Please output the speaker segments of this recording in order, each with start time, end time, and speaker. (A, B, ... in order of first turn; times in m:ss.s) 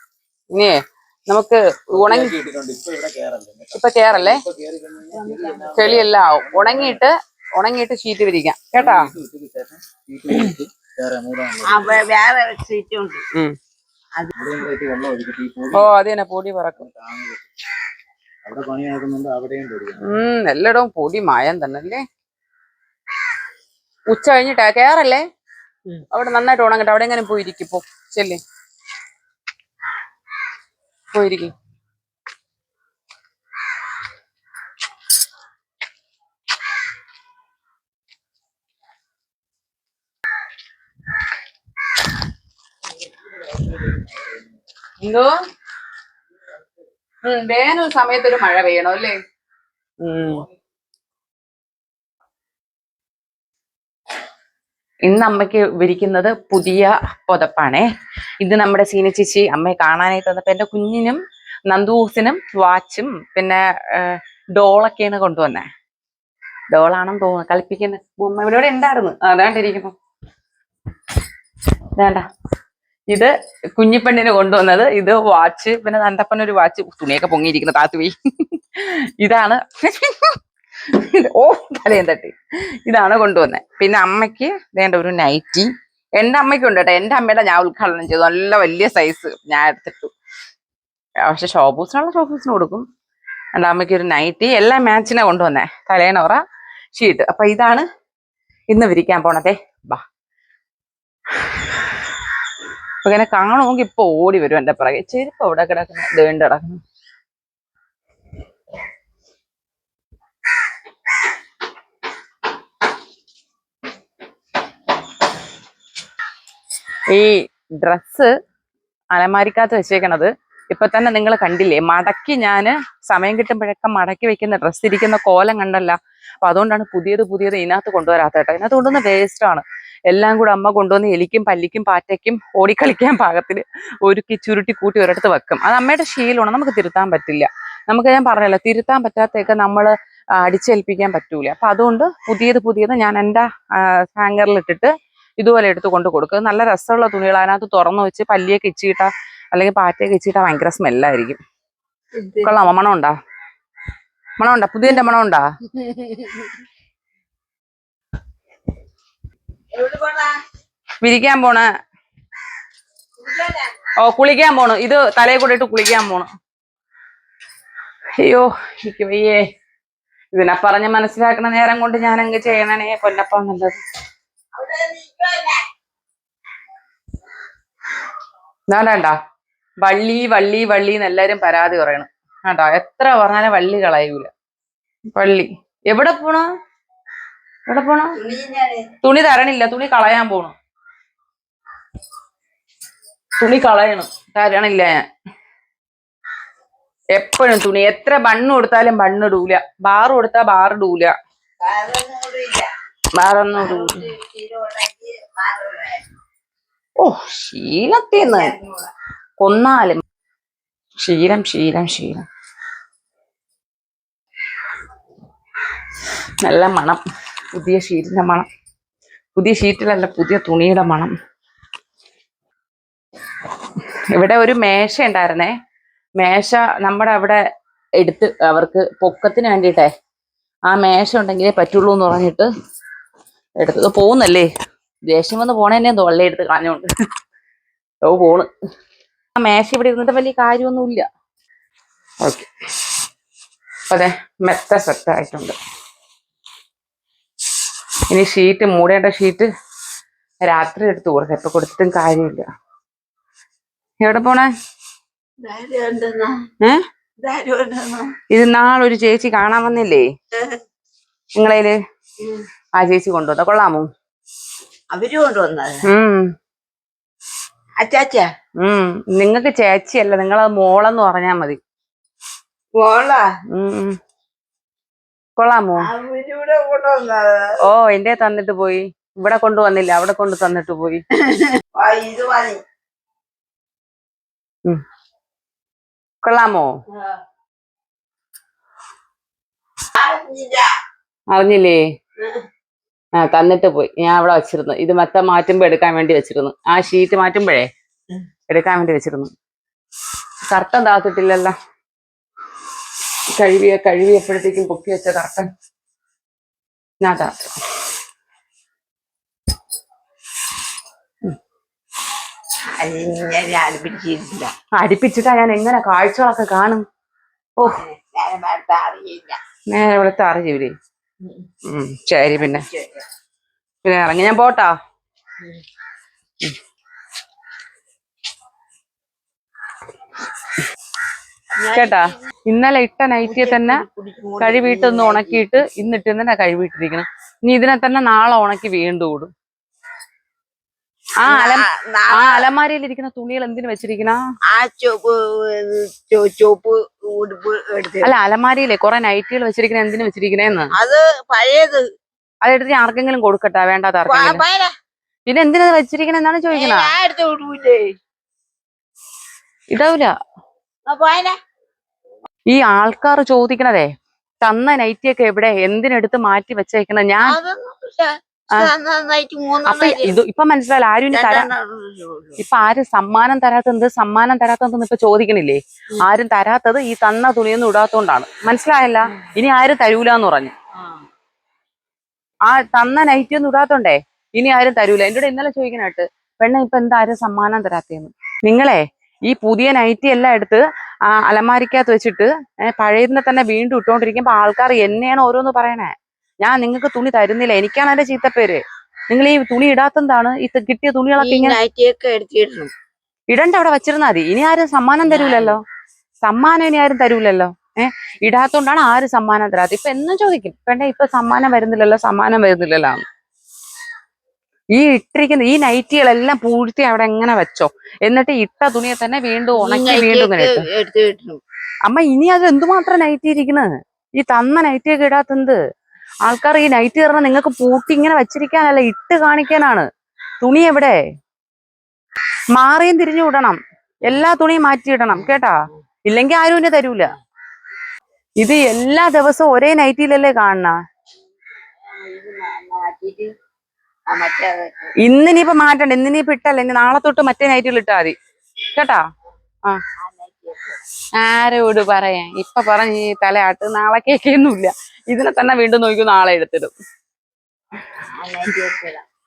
0:00.5-0:02.3 A
0:01.9-0:07.0 B
0:03.8-0:04.4 A
0:05.1-0:06.0 C
0:05.8-0:09.1 A
0:08.7-0:12.0 B
0:11.7-0:13.2 C
0:14.3-0:16.0 B
0:15.7-0:16.9 A
0:16.8-0:17.5 B
0:18.4-0:20.0 B
0:20.1-0:22.0 A
0:24.1-0:25.2 A
0:26.1-0:28.4 A
0:31.1-0:31.5 A
0:45.0-0:45.3 A
0:47.2-0:49.2 A
0:50.0-0:50.5 A
0:55.1-0:57.9 A
0:58.4-1:05.7 A
1:06.7-1:10.0 A
1:12.0-1:12.3 A
1:13.1-1:20.4 A
1:20.9-1:22.4 A
1:22.9-1:30.1 A
1:31.3-1:32.9 A
1:33.6-1:36.4 A
1:37.0-1:37.9 A
1:38.7-1:40.0 A
1:43.0-1:46.8 A
1:57.1-1:58.3 A
1:59.1-2:31.4 A
2:32.2-2:32.5 C
2:32.4-2:33.2 A
2:34.4-2:35.5 A
2:35.7-2:36.5 C
2:39.7-2:40.4 C
2:41.0-2:41.7 A
2:43.2-2:43.7 C
2:44.0-2:46.3 A
2:48.2-2:49.5 A
2:50.4-2:53.8 A
2:54.6-2:55.7 C
2:58.7-2:59.2 A
2:59.8-3:04.3 A
3:05.1-3:06.5 A
3:07.7-3:08.2 A
3:08.2-3:08.9 C
3:09.0-3:10.5 A
3:13.4-3:15.0 A
3:17.2-3:21.1 A
3:21.6-3:22.7 C
3:23.2-3:24.1 A
3:23.5-3:26.0 C
3:27.0-3:28.5 A
3:28.2-3:28.9 C
3:29.4-3:30.0 A
3:31.0-3:32.2 A
3:36.4-3:37.0 A
3:37.5-3:38.5 A
3:39.4-3:41.1 A
3:44.2-3:45.6 A
3:46.2-3:47.4 A
3:48.0-3:49.9 A
3:50.7-3:52.5 A
3:53.6-3:54.5 A
3:55.1-3:56.9 A
3:58.1-3:58.5 A
3:59.4-4:01.1 A
4:02.2-4:02.5 A
4:03.9-4:05.6 A
4:08.1-4:09.5 A
4:10.4-4:12.5 A
4:14.0-4:14.5 A
4:15.4-4:16.4 C
4:17.2-4:18.2 C
4:18.3-4:20.1 A
4:20.3-4:20.6 C
4:21.4-4:21.8 A
4:22.8-4:23.9 A
4:24.9-4:25.8 C
4:25.9-4:26.3 A
4:27.8-4:28.3 C
4:28.6-4:31.6 A
4:32.7-4:33.3 C
4:33.5-4:34.0 A
4:35.4-4:35.9 A
4:35.8-4:37.6 C
4:37.6-4:41.0 A
4:41.2-4:42.6 C
4:46.2-4:46.7 A
4:50.0-4:50.7 C
4:51.3-4:51.8 A
4:53.2-4:57.7 A
4:58.5-4:59.3 A
5:00.5-5:01.6 A
5:03.4-5:05.5 A
5:07.0-5:07.5 A
5:12.8-5:14.5 C
5:14.8-5:16.8 A
5:17.6-5:19.4 C
5:19.7-5:20.7 A
5:21.2-5:21.5 C
5:21.7-5:22.7 A
5:22.4-5:23.0 C
5:23.8-5:24.8 A
5:31.6-5:32.2 C
5:31.7-5:33.8 A
5:33.2-5:35.4 C
5:34.4-5:39.3 A
5:41.2-5:44.2 A
5:41.3-5:42.4 C
5:44.5-5:48.1 C
5:48.0-5:50.7 A
5:50.8-5:51.8 C
5:52.4-5:54.4 A
5:54.1-5:54.7 C
5:55.3-5:56.9 A
5:56.5-5:57.9 C
5:59.7-6:00.1 A
6:00.9-6:01.4 C
6:02.5-6:03.9 A
6:04.4-6:07.4 A
6:07.2-6:10.2 C
6:09.7-6:11.5 A
6:11.1-6:12.4 C
6:12.4-6:20.5 A
6:20.8-6:21.0 C
6:22.5-6:41.6 A
6:41.2-6:42.7 C
6:43.3-6:45.6 A
6:45.0-6:45.6 C
6:46.2-6:53.0 A
6:54.7-7:00.7 A
6:59.6-7:01.4 C
7:01.9-7:05.6 A
7:06.3-7:09.9 A
7:10.4-7:11.0 A
7:12.5-7:17.1 A
7:15.1-7:15.8 C
7:18.4-7:20.8 A
7:21.8-7:23.3 C
7:24.1-7:24.9 C
7:25.0-7:28.2 A
7:28.8-7:29.0 A
7:30.0-7:30.8 C
7:31.2-7:36.7 A
7:38.1-7:39.0 C